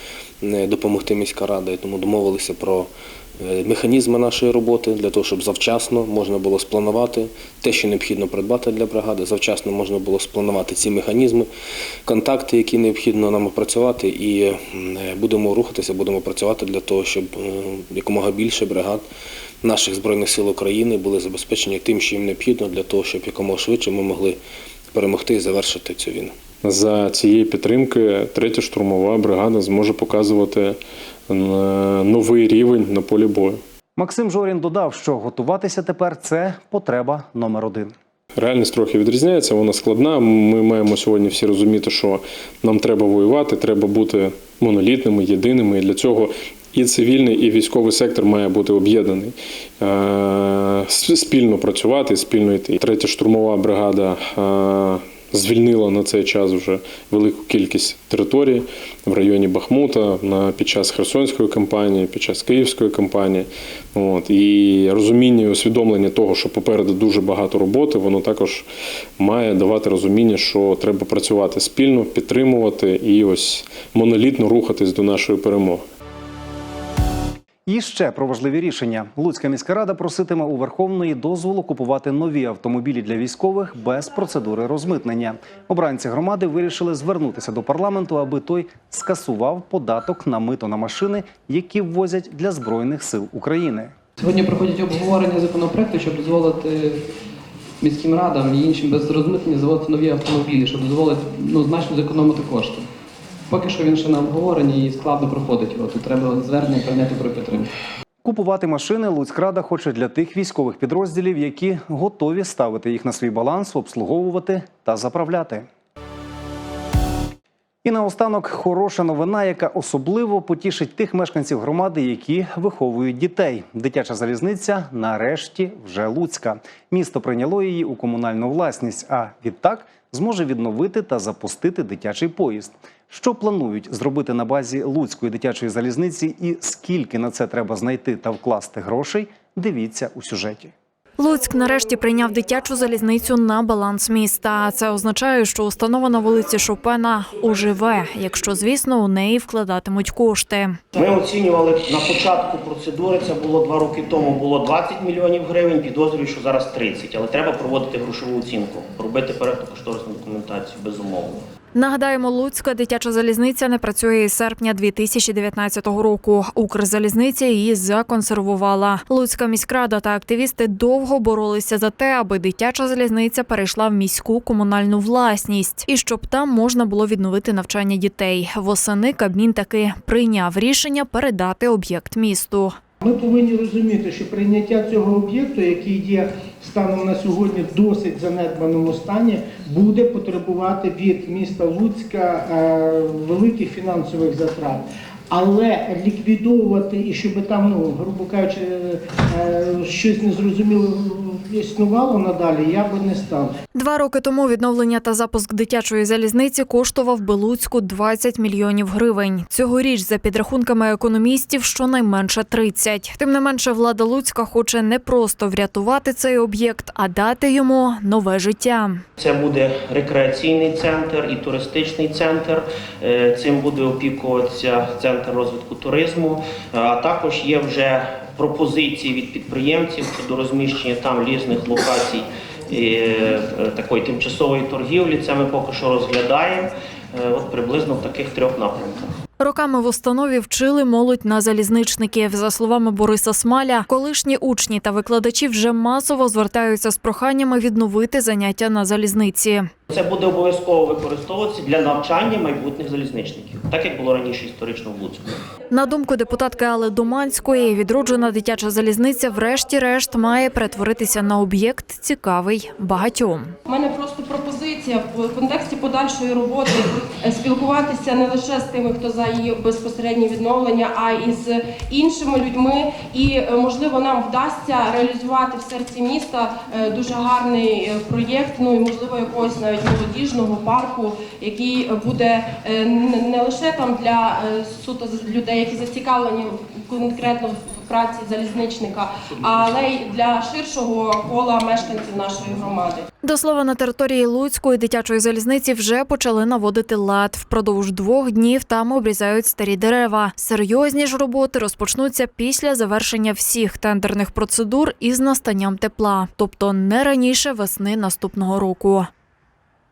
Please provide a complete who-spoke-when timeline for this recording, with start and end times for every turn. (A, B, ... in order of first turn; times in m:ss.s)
0:00.4-0:11.5 A
0:12.0-0:19.0 A
0:19.6-0:24.4 A
0:24.9-0:26.4 A
0:26.6-0:30.8 B
0:31.3-0:33.6 B
0:34.0-0:37.9 C
0:38.4-1:08.7 B
1:09.2-1:15.8 B
1:17.6-1:33.9 C
1:34.2-1:37.0 D
1:37.8-1:42.9 D
1:43.5-1:47.7 D
1:48.2-1:55.7 C
1:57.8-2:20.7 C
2:21.2-2:30.8 E
2:30.9-2:41.4 F
2:41.7-3:02.8 E
3:03.0-3:23.5 G
3:23.7-3:39.0 E
3:39.2-3:59.1 F
3:59.4-4:09.7 E
4:09.9-4:15.4 F
4:15.7-4:23.5 E
4:23.7-4:53.0 H
4:53.2-5:09.1 E